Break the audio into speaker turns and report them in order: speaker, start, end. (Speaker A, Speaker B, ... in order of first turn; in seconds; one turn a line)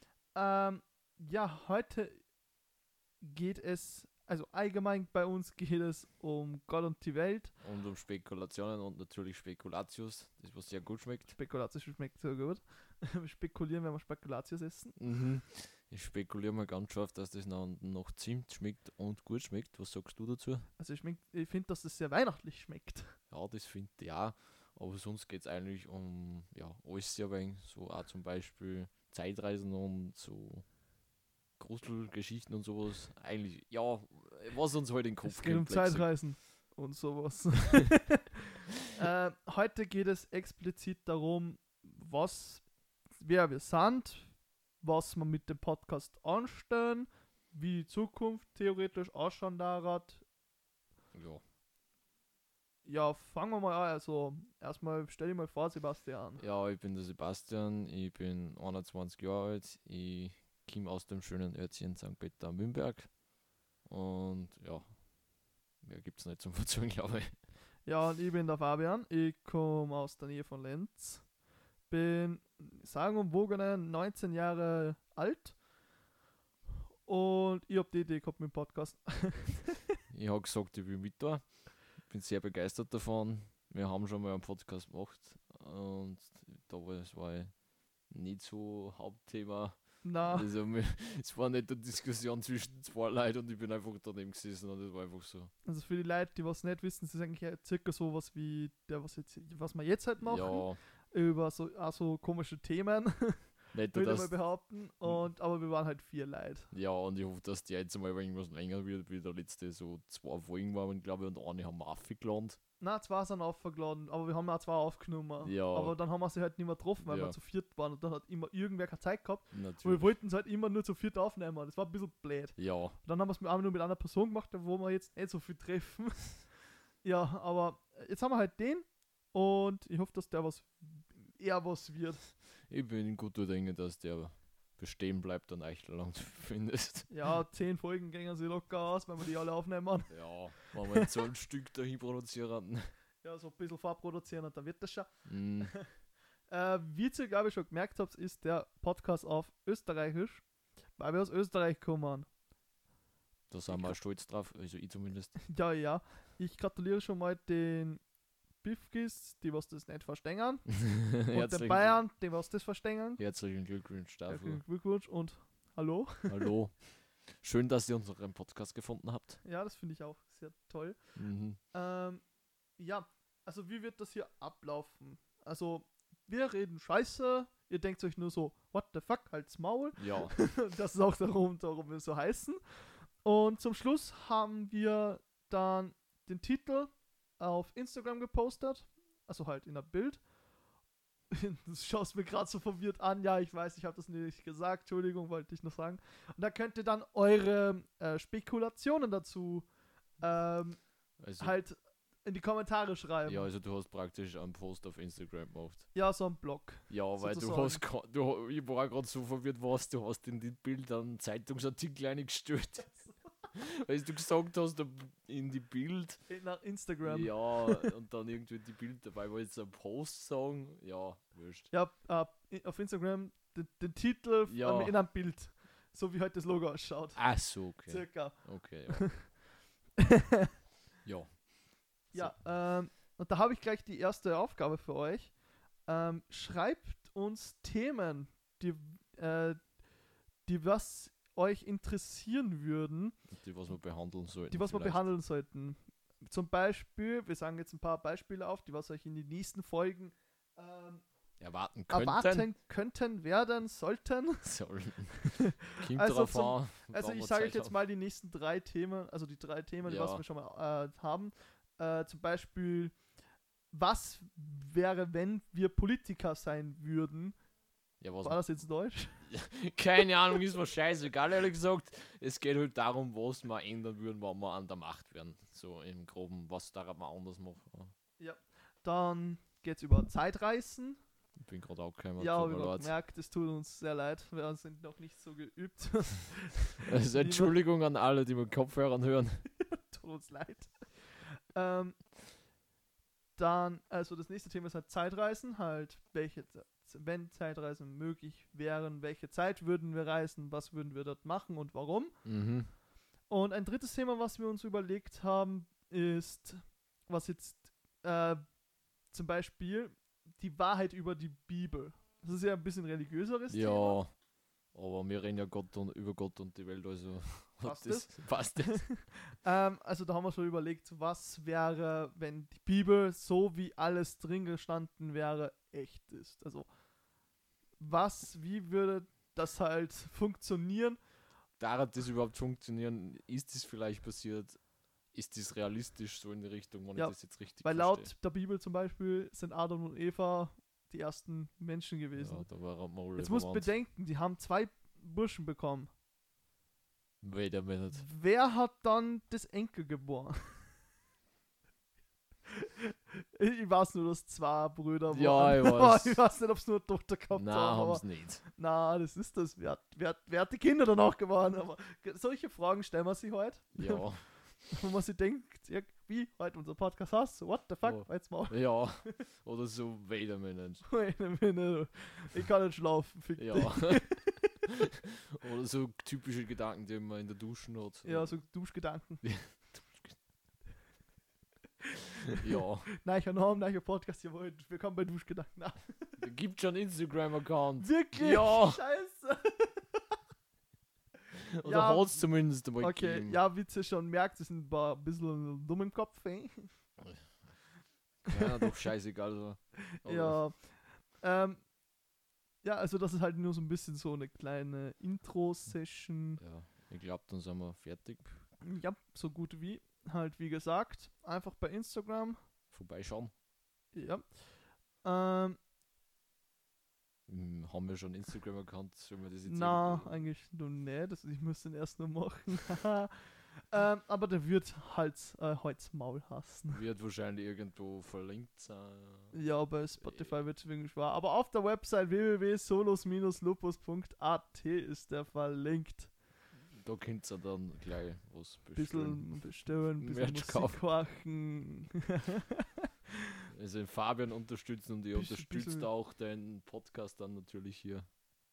Speaker A: 0.3-2.2
Speaker A: 3.2-7.5
Speaker B: 7.6-11.3
Speaker A: 11.3-15.0
Speaker B: 15.0-20.6
Speaker A: 20.8-23.2
Speaker B: 23.3-30.6
Speaker B: 31.6-36.1
Speaker A: 35.2-38.2
Speaker A: 38.9-42.6
Speaker A: 43.2-50.2
Speaker B: 51.1-51.4
Speaker A: 52.8-56.4
Speaker B: 56.4-63.1
Speaker B: 63.9-64.8
Speaker B: 65.8-67.3
Speaker A: 67.8-71.2
Speaker A: 71.9-75.5
Speaker A: 77.0-79.8
Speaker B: 80.1-87.5
Speaker B: 88.1-95.5
Speaker A: 90.0-90.5
Speaker A: 95.6-106.7
Speaker B: 100.2-100.8
Speaker B: 103.7-104.3
Speaker B: 106.7-112.6
Speaker A: 112.8-126.4
Speaker B: 115.4-116.0
Speaker B: 117.0-117.3
Speaker B: 119.5-120.1
Speaker B: 122.6-123.0
Speaker A: 127.0-132.3
Speaker B: 132.7-137.1
Speaker A: 137.1-141.1
Speaker B: 140.1-142.9
Speaker A: 143.2-145.9
Speaker B: 145.2-145.7
Speaker A: 146.5-150.4
Speaker A: 151.0-152.3
Speaker B: 153.5-155.4
Speaker A: 153.7-153.9
Speaker A: 155.5-158.0
Speaker A: 158.6-163.2
Speaker B: 160.8-162.0
Speaker B: 163.2-164.6
Speaker A: 164.3-166.3
Speaker B: 166.3-166.8
Speaker B: 167.4-169.4
Speaker A: 169.4-171.0
Speaker B: 171.2-171.6
Speaker A: 171.7-172.2
Speaker A: 172.8-182.6
Speaker B: 180.0-180.3
Speaker A: 183.2-190.2
Speaker A: 191.3-199.7
Speaker A: 200.2-200.8
Speaker B: 201.2-201.5
Speaker A: 201.4-203.5
Speaker B: 203.2-205.9
Speaker A: 205.9-207.8
Speaker B: 206.9-213.0
Speaker B: 213.5-216.2
Speaker A: 216.3-217.9
Speaker B: 217.0-221.7
Speaker A: 221.7-229.2
Speaker B: 224.5-224.9
Speaker B: 227.2-229.1
Speaker A: 230.0-230.5
Speaker B: 231.0-231.5
Speaker B: 232.1-232.3
Speaker A: 232.1-235.3
Speaker A: 235.9-239.6
Speaker A: 240.4-243.2
Speaker B: 243.3-245.1
Speaker A: 244.5-251.0
Speaker B: 251.4-252.5
Speaker A: 251.9-254.5
Speaker B: 254.4-257.7
Speaker A: 255.3-262.9
Speaker B: 259.8-260.2
Speaker A: 263.7-267.4
Speaker B: 268.0-268.4
Speaker A: 268.2-269.2
Speaker B: 269.3-277.9
Speaker A: 278.2-281.0
Speaker B: 281.4-282.9
Speaker A: 282.2-287.5
Speaker B: 286.8-289.4
Speaker A: 289.7-292.0
Speaker A: 293.4-302.2
Speaker B: 302.2-302.7
Speaker A: 303.3-308.4
Speaker A: 309.1-314.0
Speaker B: 313.5-314.1
Speaker B: 314.7-318.9
Speaker A: 317.6-326.7
Speaker A: 327.8-331.0
Speaker B: 331.6-334.6
Speaker B: 335.1-338.1
Speaker A: 336.9-342.5
Speaker B: 342.2-343.7
Speaker A: 343.1-345.9
Speaker B: 347.2-348.0
Speaker A: 347.9-350.6
Speaker A: 352.5-364.1
Speaker B: 355.1-356.2
Speaker B: 357.3-358.4
Speaker B: 363.7-364.2
Speaker A: 364.6-369.1
Speaker B: 367.8-370.8
Speaker A: 370.8-374.5
Speaker B: 373.4-374.1
Speaker B: 375.4-378.4
Speaker A: 378.0-379.2
Speaker B: 379.2-380.1
Speaker B: 382.4-382.9
Speaker A: 383.0-386.2
Speaker B: 386.2-388.8
Speaker A: 387.8-390.1
Speaker B: 391.6-393.4
Speaker A: 391.6-396.7
Speaker B: 398.2-400.4
Speaker A: 400.0-401.6
Speaker A: 402.6-406.4
Speaker B: 406.4-408.4
Speaker A: 408.6-412.4
Speaker B: 412.7-413.3
Speaker A: 413.9-414.2
Speaker A: 415.0-415.6
Speaker B: 417.3-420.2
Speaker A: 419.4-426.8
Speaker B: 426.7-429.3
Speaker A: 429.3-436.1
Speaker B: 430.0-430.4
Speaker B: 436.7-440.8
Speaker A: 438.7-442.7
Speaker B: 443.5-448.0
Speaker A: 445.1-445.9